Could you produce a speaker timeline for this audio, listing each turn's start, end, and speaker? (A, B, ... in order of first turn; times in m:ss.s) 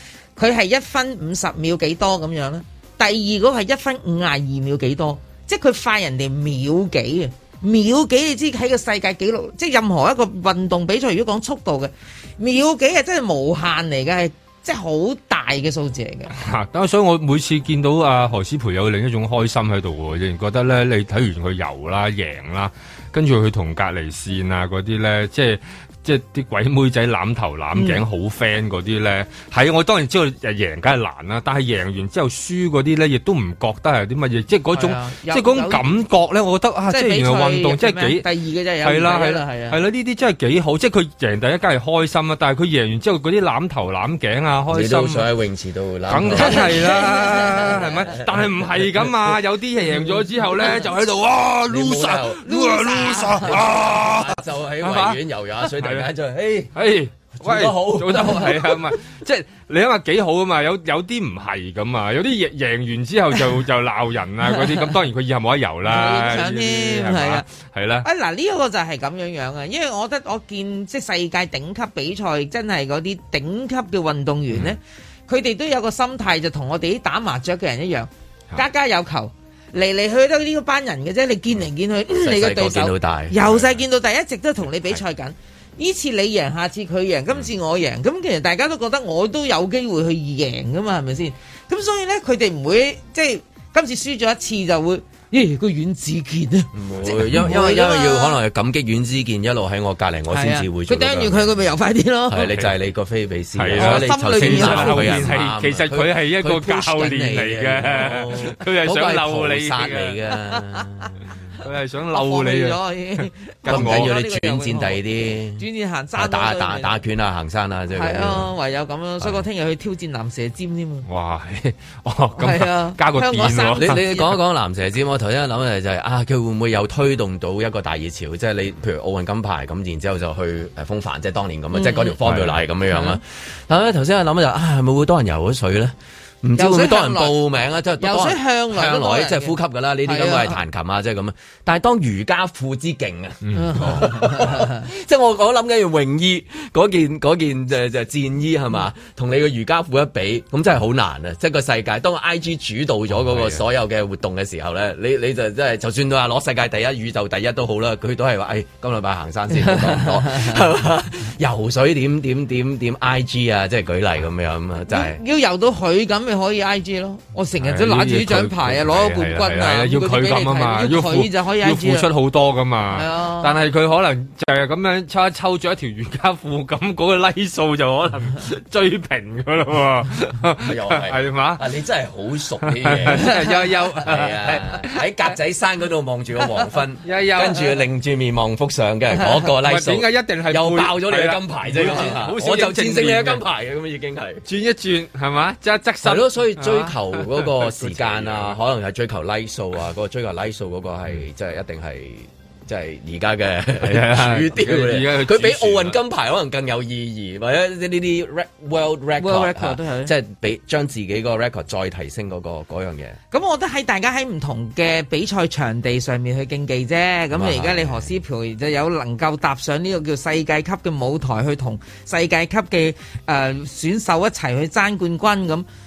0:00.4-0:16.4 A
0:16.3-0:38.2 B
0:27.8-0:28.0 A
0:34.7-0:35.8 A
0:36.9-0:39.8 A
0:38.8-0:45.3 B
0:44.7-0:46.8 C
0:46.1-0:55.2 B
0:46.4-0:47.9 A
0:48.1-0:48.4 C
0:51.7-0:52.5 C
0:52.4-0:53.6 A
0:53.4-0:56.8 C
0:55.8-0:56.1 B
0:56.7-1:08.0 B
0:57.4-0:58.9 C
1:05.8-1:07.4 A
1:08.0-1:38.4 A
1:22.2-1:23.6 C
1:36.7-1:41.5 C
1:40.3-1:42.4 A
1:42.3-1:51.1 C
1:42.4-1:42.7 B
1:43.6-1:50.2 B
1:43.8-1:45.3 A
1:51.5-1:52.8 B
1:52.1-1:55.0 A
1:53.6-1:54.1 B
1:53.7-1:55.6 C
1:55.6-1:57.0 A
1:56.2-1:58.5 C
1:57.9-2:01.0 A
2:01.0-2:04.0 B
2:02.4-2:04.4 A
2:03.8-2:45.2 C
2:11.7-2:12.2 A
2:12.3-2:12.5 B
2:12.9-2:13.2 A
2:16.6-2:17.4 A
2:18.0-2:20.6 A
2:23.4-2:23.8 B
2:23.5-2:24.8 A
2:33.2-2:33.6 B
2:39.6-2:40.6 A
2:44.9-2:52.1 A
2:47.6-3:01.6 B
2:52.9-2:53.5 A
3:00.6-3:03.4 C
3:02.6-3:05.0 B
3:04.0-3:14.4 C
3:07.0-3:07.8 B
3:09.6-3:13.4 B
3:14.4-3:18.6 B
3:16.0-3:33.2 C
3:23.8-3:26.0 B
3:29.2-3:30.1 A
3:33.3-3:45.6 A
3:37.3-3:38.2 C